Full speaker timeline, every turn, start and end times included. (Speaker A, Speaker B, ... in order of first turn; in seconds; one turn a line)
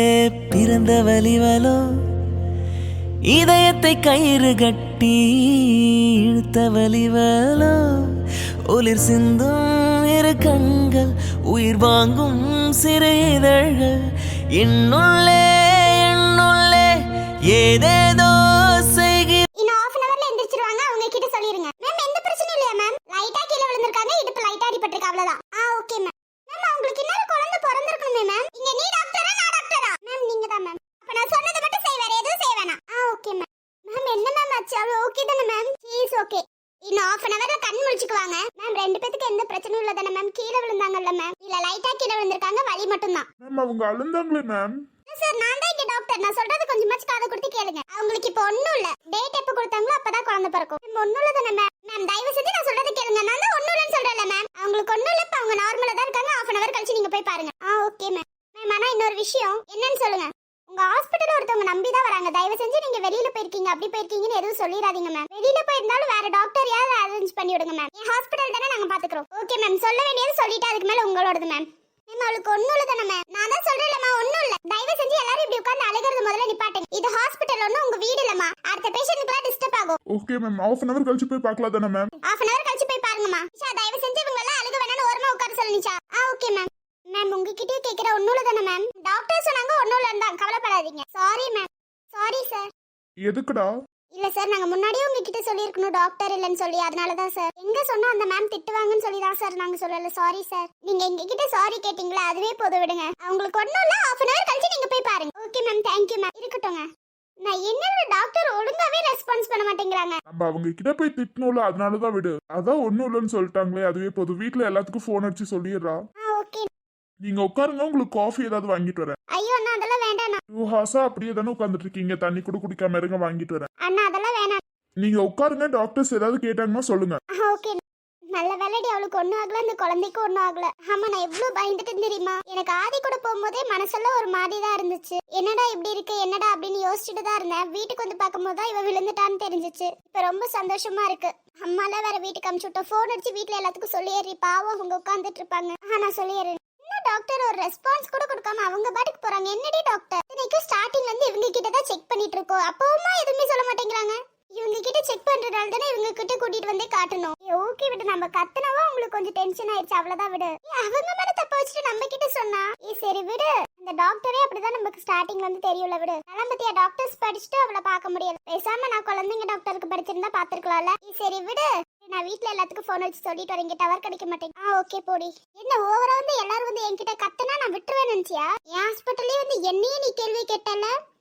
Speaker A: 0.5-1.8
Speaker A: 3.4-5.1
Speaker A: 6.3-7.7
Speaker A: 8.7-13.9
Speaker A: 14.6-15.4
Speaker A: 16.0-16.9
Speaker A: 17.5-18.3
Speaker A: 18.9-19.4
Speaker B: 19.6-43.2
Speaker C: 43.4-44.7
Speaker B: 45.1-80.0
Speaker C: 80.1-82.1
Speaker B: 82.2-92.7
Speaker C: 93.2-93.7
Speaker B: 94.1-106.8
Speaker B: 107.4-110.2
Speaker C: 110.3-116.0
Speaker B: 116.2-116.7
Speaker C: 117.2-119.2
Speaker B: 119.3-120.4
Speaker C: 120.5-123.7
Speaker B: 123.8-124.6
Speaker C: 125.0-127.2
Speaker B: 127.3-127.8
Speaker B: 128.3-180.9